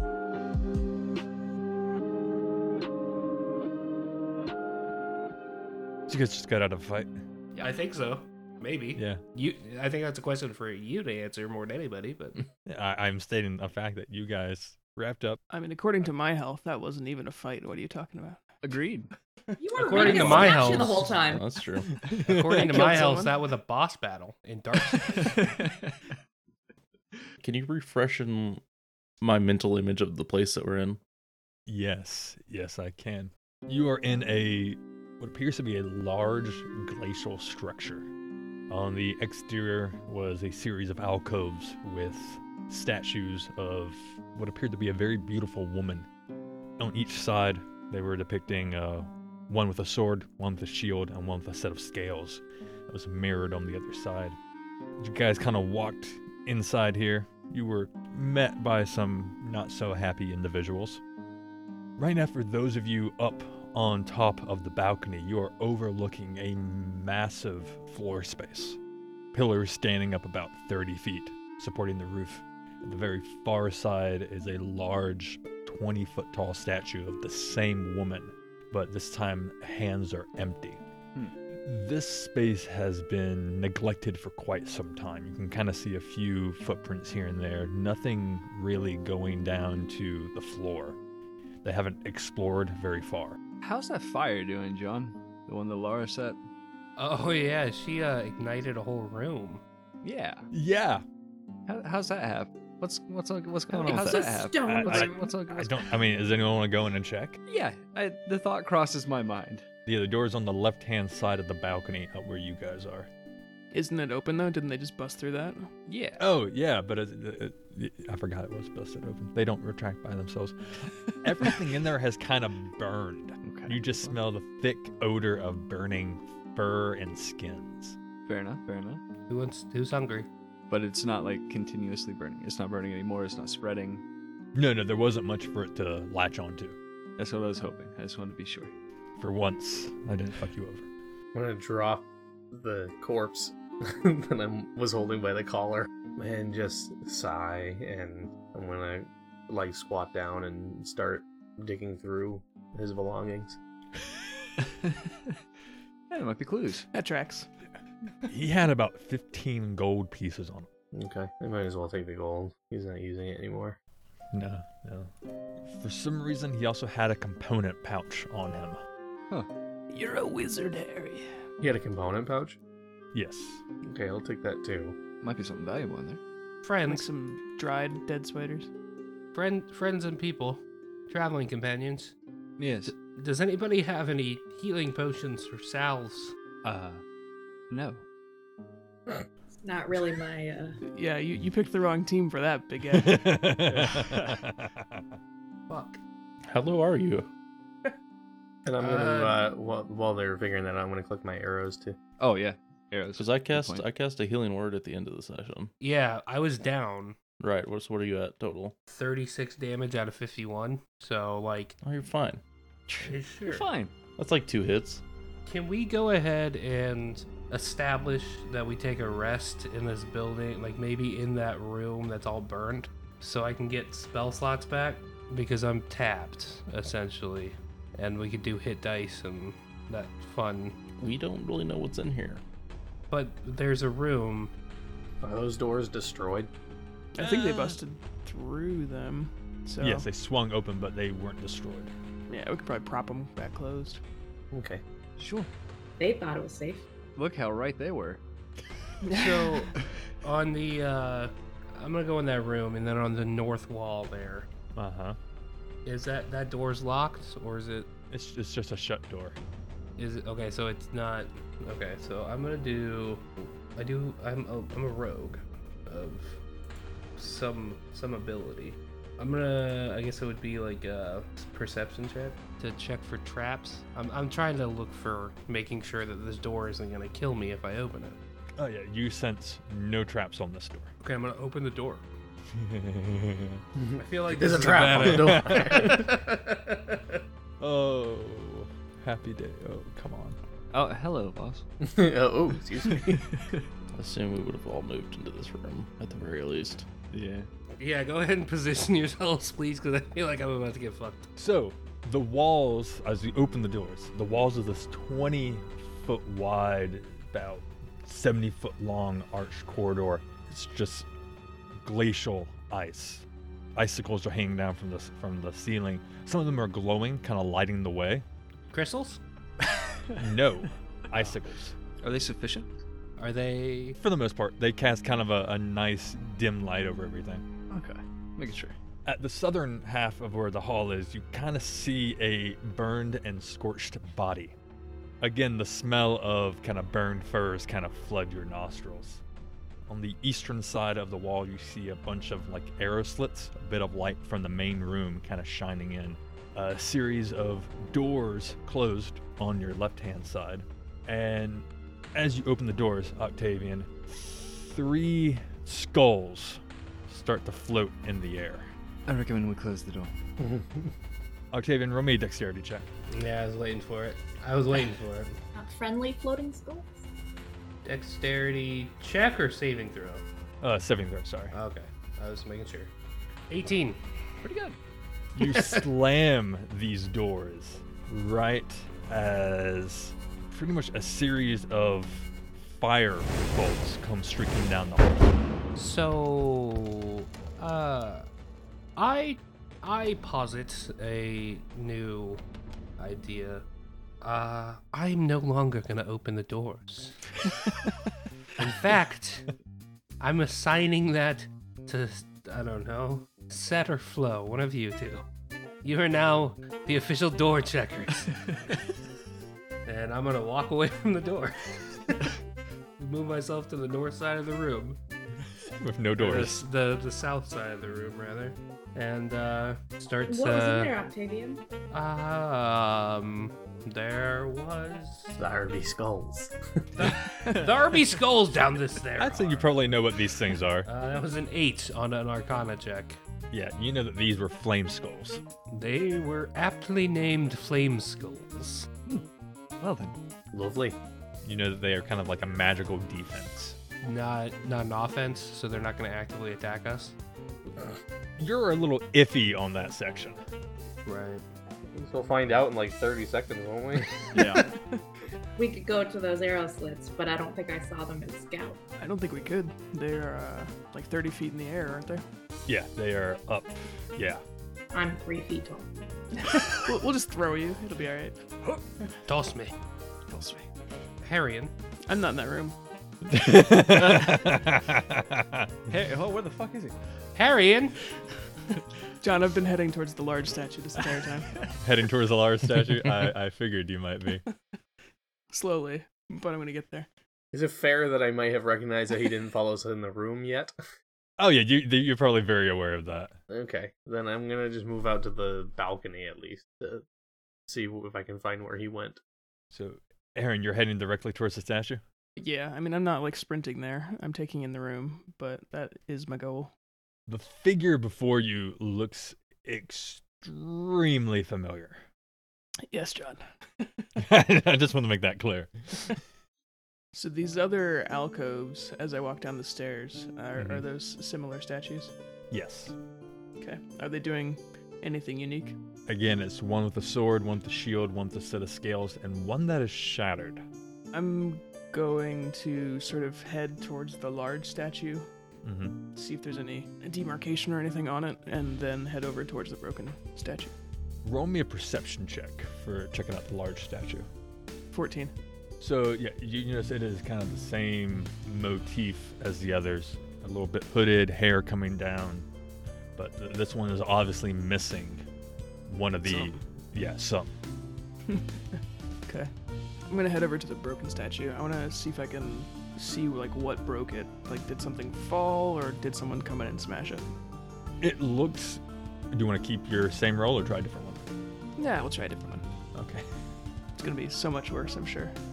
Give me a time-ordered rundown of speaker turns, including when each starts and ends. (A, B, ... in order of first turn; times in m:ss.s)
0:06.1-0:07.2 A
0:07.6-0:12.4 B
0:09.0-0:09.2 A
0:12.7-0:15.4 A
0:15.5-0:18.5 C
0:18.6-0:19.1 D
0:19.6-0:21.5 E
0:19.8-0:21.1 B
0:20.0-0:21.9 F
0:22.2-0:25.4 B
0:22.5-0:23.4 C
0:25.4-0:25.8 D
0:27.4-0:28.6 F
0:29.2-0:31.0 F
0:31.7-0:38.1 A
0:38.7-0:46.1 A
0:46.8-0:54.4 A
0:55.0-1:01.0 A
1:02.0-1:08.8 A
1:09.3-1:20.8 A
1:21.6-1:31.0 A
1:31.6-1:33.4 A
1:33.6-1:36.4 D
1:37.0-1:39.6 B
1:40.0-1:40.5 D
1:40.5-1:41.0 A
1:41.7-1:45.8 D
1:43.7-1:45.4 E
1:44.6-1:47.4 A
1:47.5-1:49.6 D
1:49.9-1:53.1 A
1:53.7-1:55.7 C
1:55.9-1:56.2 D
1:56.2-2:08.0 A
2:03.4-2:04.1 D
2:08.2-2:09.0 D
2:09.3-2:10.3 B
2:10.7-2:14.0 D
2:14.5-2:16.8 A
2:17.2-2:18.7 D
2:19.2-2:20.9 A
2:21.3-2:33.6 G
2:36.1-2:36.9 D
2:36.9-2:37.5 C
2:38.3-2:40.7 A
2:40.9-2:43.8 G
2:44.3-2:45.1 A
2:45.6-2:48.8 A
2:49.9-2:51.3 C
2:51.6-2:52.6 G
2:53.1-2:53.6 A
2:53.8-2:55.0 G
2:55.2-2:56.2 D
2:56.6-2:57.0 B
2:56.9-2:58.7 C
2:59.3-3:02.1 B
3:02.6-3:02.9 D
3:02.8-3:06.3 B
3:06.6-3:07.0 D
3:07.7-3:08.0 D
3:09.5-3:10.8 E
3:10.8-3:13.5 C
3:12.9-3:15.0 A
3:13.8-3:14.3 D
3:15.7-3:16.0 B
3:16.5-3:17.3 F
3:18.6-3:22.0 G
3:18.8-3:19.4 B
3:22.2-3:23.8 D
3:23.1-3:25.7 F
3:25.8-3:27.2 B
3:27.4-3:28.8 F
3:28.9-3:31.8 B
3:31.8-3:32.4 F
3:32.9-3:33.9 D
3:33.0-3:33.7 B
3:34.2-3:35.0 F
3:35.4-3:50.8 B
3:51.0-3:52.4 F
3:53.1-3:54.5 B
3:55.2-3:56.5 G
3:57.1-4:00.1 C
3:57.2-3:57.8 A
3:59.8-4:01.9 A
4:02.3-4:04.0 C
4:04.5-4:04.8 G
4:05.2-4:05.5 D
4:06.0-4:06.8 E
4:07.2-4:08.2 D
4:09.0-4:09.6 C
4:09.1-4:09.7 B
4:10.2-4:14.5 B
4:14.8-4:15.2 A
4:15.9-4:17.9 B
4:18.1-4:19.4 A
4:20.0-4:26.4 B
4:27.2-4:38.2 B
4:38.6-4:40.9 A
4:41.0-4:42.0 B
4:42.5-4:43.6 A
4:43.8-4:46.1 G
4:44.0-4:47.2 B
4:44.4-4:46.0 A
4:47.6-4:50.4 A
4:50.7-4:51.6 D
4:51.8-4:53.3 G
4:53.3-4:53.6 D
4:53.9-4:56.8 F
4:57.1-4:57.5 D
4:57.8-5:01.3 B
5:01.4-5:11.1 A
5:11.8-5:18.2 A
5:18.7-5:19.2 B
5:20.2-5:21.8 A
5:22.0-5:22.7 D
5:23.2-5:24.0 B
5:24.0-5:27.4 A
5:27.7-5:28.8 D
5:29.0-5:34.6 A
5:35.2-5:39.2 A
5:39.9-5:58.7 A
5:59.1-6:00.1 D
6:00.4-6:00.9 G
6:01.5-6:02.9 A
6:03.1-6:05.4 B
6:05.5-6:07.0 E
6:07.8-6:10.2 B
6:10.6-6:11.6 A
6:11.5-6:12.9 B
6:13.5-6:14.0 B
6:14.4-6:14.8 D
6:15.3-6:25.3 A
6:15.4-6:15.8 B
6:25.8-6:28.2 B
6:29.0-6:32.4 B
6:33.0-6:33.6 B
6:34.2-6:37.3 B
6:38.6-6:39.5 B
6:40.2-6:45.2 B
6:45.8-6:48.3 B
6:49.9-6:52.2 B
6:53.0-6:55.0 B
6:55.7-6:56.6 A
6:56.2-7:00.9 B
7:00.3-7:01.6 E
7:01.9-7:05.4 B
7:05.4-7:06.8 G
7:07.0-7:09.7 B
7:09.2-7:10.9 A
7:10.8-7:13.2 B
7:13.5-7:15.4 A
7:15.7-7:18.9 B
7:19.8-7:20.2 D
7:20.5-7:21.0 G
7:21.4-7:23.8 A
7:24.0-7:27.2 B
7:28.4-7:30.4 A
7:31.1-7:31.4 B
7:31.9-7:34.3 G
7:34.3-7:34.6 D
7:34.4-7:35.0 C
7:35.6-7:38.8 E
7:39.0-7:42.2 C
7:42.7-7:44.4 A
7:44.9-7:45.9 E
7:46.3-7:48.4 C
7:49.2-7:49.7 B
7:50.3-7:50.7 D
7:51.2-7:51.7 B
7:52.1-7:52.8 C
7:53.3-7:55.7 A
7:54.0-7:54.5 D
7:55.9-7:57.0 D
7:57.3-7:58.0 B
7:59.2-8:01.5 C
8:01.8-8:04.4 A
8:05.5-8:07.1 C
8:07.5-8:10.7 G
8:11.4-8:13.4 A
8:13.5-8:17.0 G
8:17.7-8:19.2 G
8:19.7-8:22.0 A
8:22.4-8:26.7 C
8:27.3-8:32.0 A
8:32.9-8:34.1 C
8:34.2-8:36.2 A
8:37.1-8:42.1 C
8:40.5-8:40.8 A
8:42.5-8:42.9 A
8:43.6-8:45.8 C
8:46.1-8:50.6 A
8:51.1-8:55.3 C
8:55.6-8:56.0 A
8:56.1-9:00.7 C
9:01.2-9:04.3 A
9:04.9-9:05.3 C
9:05.8-9:12.5 A
9:13.2-9:15.2 A
9:15.9-9:17.6 A
9:16.2-9:16.6 C
9:18.3-9:19.5 C
9:20.1-9:27.3 C
9:28.0-9:31.2 A
9:31.8-9:32.6 C
9:32.9-9:33.2 A
9:34.0-9:35.3 C